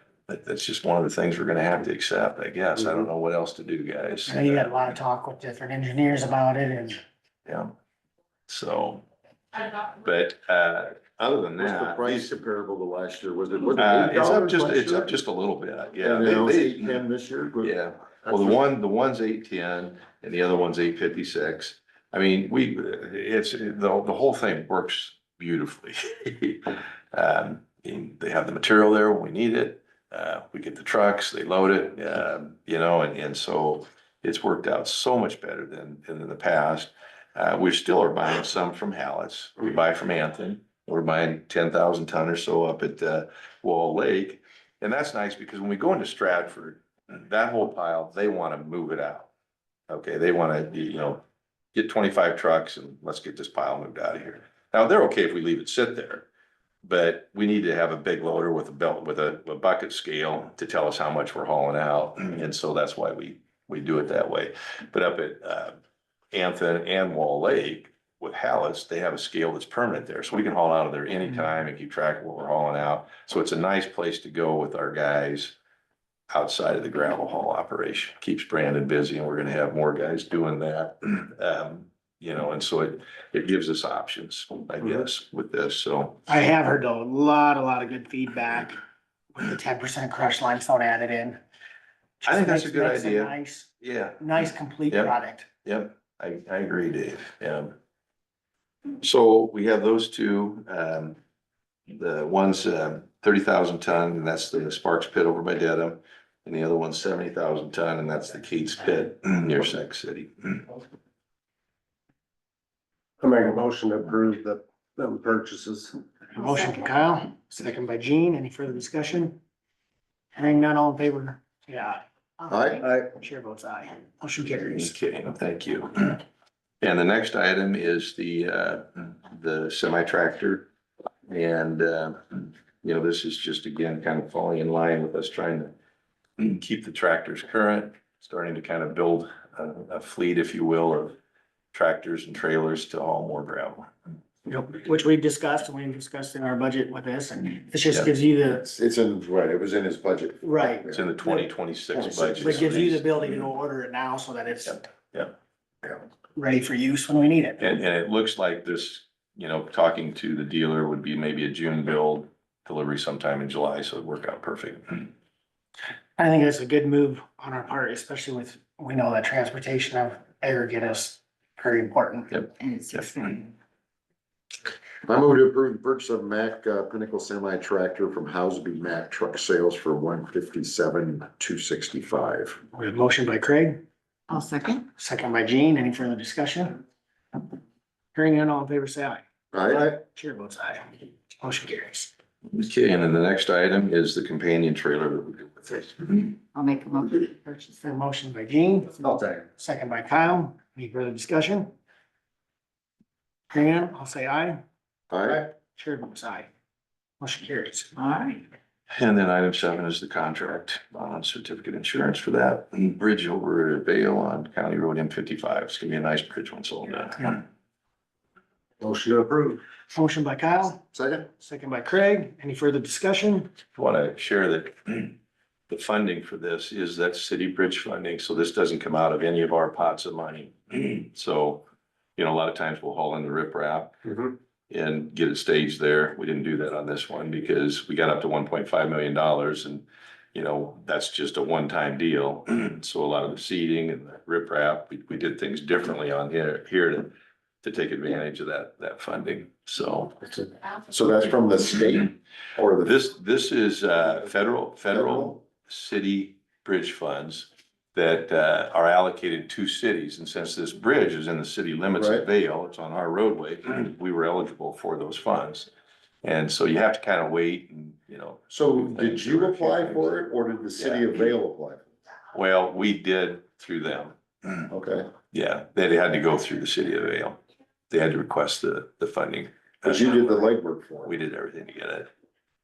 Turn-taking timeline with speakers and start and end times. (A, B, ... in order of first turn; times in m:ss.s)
0:00.3-0:04.9 A
0:04.3-0:07.0 B
0:07.5-0:07.7 A
0:08.5-0:09.0 A
0:09.7-0:12.4 A
0:11.6-0:15.1 C
0:13.8-0:17.0 A
0:16.0-0:18.6 C
0:17.6-0:49.3 A
0:49.9-0:51.2 A
0:51.7-0:56.3 A
0:56.8-1:05.8 A
1:06.3-1:15.6 A
1:16.3-1:26.2 A
1:26.3-1:28.8 B
1:29.4-1:31.4 B
1:32.2-1:33.7 B
1:32.2-1:37.7 A
1:34.2-1:35.5 B
1:39.0-1:41.2 A
1:41.9-1:50.7 A
1:53.2-1:55.9 D
1:56.4-1:59.4 B
2:00.4-2:04.9 B
2:02.5-2:02.9 C
2:04.6-2:06.2 A
2:06.8-2:10.7 A
2:11.3-2:15.7 A
2:16.4-2:21.2 A
2:21.7-2:23.9 A
2:24.5-2:28.6 B
2:28.6-2:32.6 C
2:30.4-2:30.9 B
2:30.9-2:33.5 A
2:32.4-2:34.8 B
2:34.7-2:35.3 A
2:36.4-2:37.8 B
2:37.6-2:45.1 A
2:46.2-2:52.4 B
2:52.6-2:53.5 E
2:55.1-3:02.6 C
3:02.7-3:03.8 B
3:04.3-3:04.9 E
3:05.0-3:06.8 B
3:08.2-3:12.1 B
3:09.5-3:10.0 C
3:12.5-3:16.4 A
3:16.5-3:18.0 E
3:17.8-3:19.0 B
3:19.6-3:21.7 B
3:23.5-3:24.6 B
3:25.1-3:25.4 C
3:25.3-3:26.5 B
3:27.2-3:27.9 B
3:28.0-3:28.4 E
3:28.9-3:37.4 A
3:38.8-3:39.6 D
3:39.9-3:40.8 B
3:40.9-3:41.3 C
3:41.4-3:43.5 B
3:43.8-3:45.2 A
3:45.7-3:51.6 A
3:52.2-4:10.2 A
4:10.2-4:13.0 C
4:12.8-4:25.7 A
4:14.9-4:15.3 C
4:22.0-4:22.2 C
4:26.2-4:30.2 A
4:28.5-4:31.8 C
4:30.8-4:31.2 A
4:32.3-4:34.7 A
4:34.7-4:35.1 C
4:35.3-4:37.4 A
4:37.9-4:40.4 A
4:39.8-4:41.1 C
4:41.0-4:42.1 A